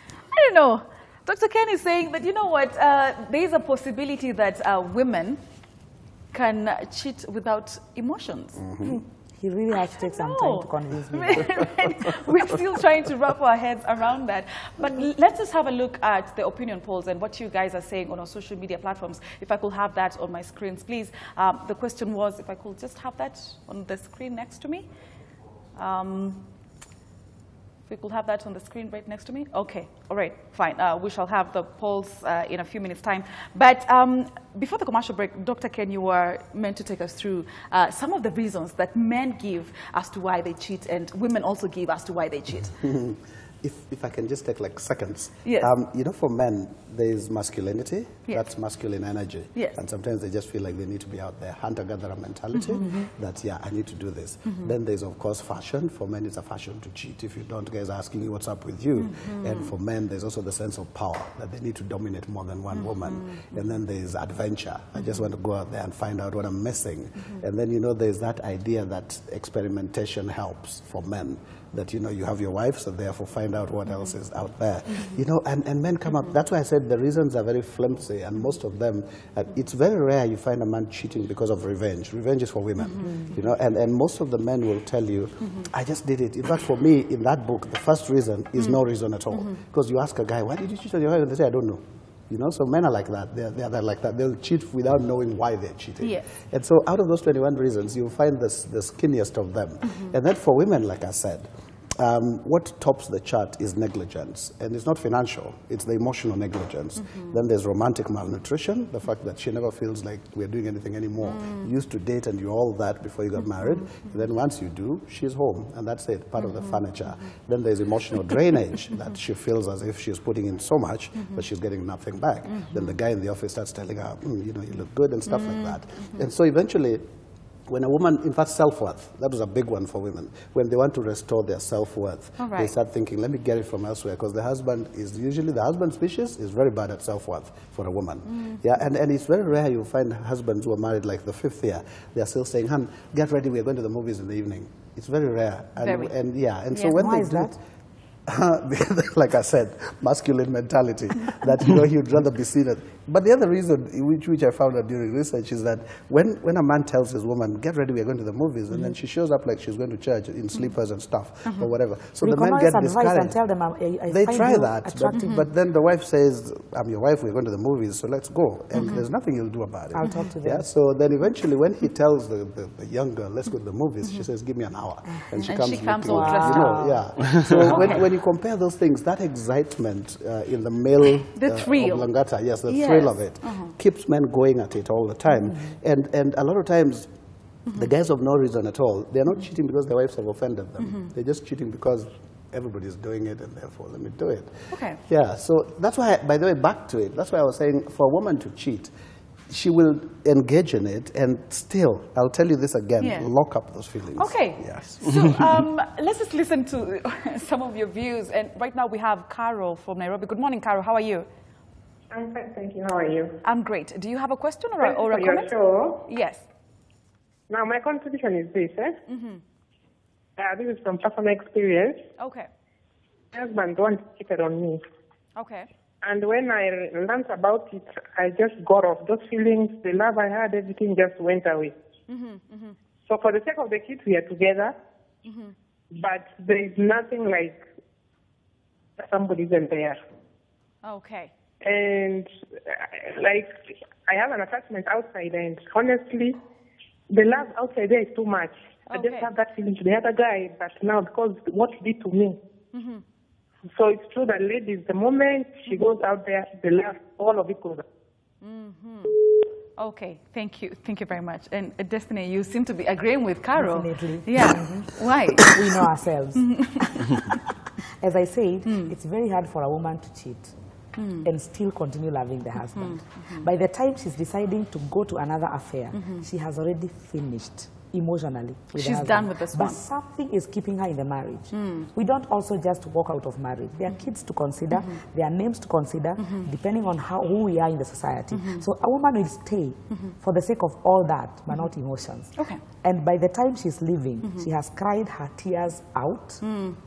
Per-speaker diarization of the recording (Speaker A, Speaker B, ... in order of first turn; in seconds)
Speaker A: 0.3-5.4, 6.3-8.6, 9.8-24.9, 25.7-26.5, 27.9-42.7, 45.4-45.7, 59.0-59.7, 132.4-132.7, 145.8-146.1, 175.4-176.9, 177.7-178.0, 181.3-182.1, 182.7-183.7, 194.7-195.0, 203.0-203.3, 204.2-211.3, 213.4-215.5, 216.1-216.4, 219.1-219.4, 222.2-222.5, 225.3-225.7, 232.1-232.8, 235.2-235.5, 240.8-241.3, 248.9-249.3, 252.7-253.0, 258.4-259.1, 259.8-265.6, 266.4-266.8, 271.0-271.2, 272.8-273.4, 275.9-276.2, 278.7-279.8, 281.5-281.9, 296.4-296.7
Speaker B: 8.6-9.0, 42.8-127.0, 127.7-147.6, 148.2-163.4, 164.1-187.1, 187.7-198.9, 199.5-205.5
Speaker C: 8.9-12.1, 146.8-147.5, 162.2-165.4, 169.9-170.6, 176.1-177.0, 177.6-178.0, 263.6-267.3, 268.0-270.5, 271.2-296.4
Speaker D: 212.1-213.4, 214.8-216.1, 217.5-219.0, 220.4-222.0, 223.3-224.8, 226.0-231.7, 233.1-234.8, 235.9-237.6, 239.0-240.0, 241.6-246.4, 247.1-252.4, 253.7-257.8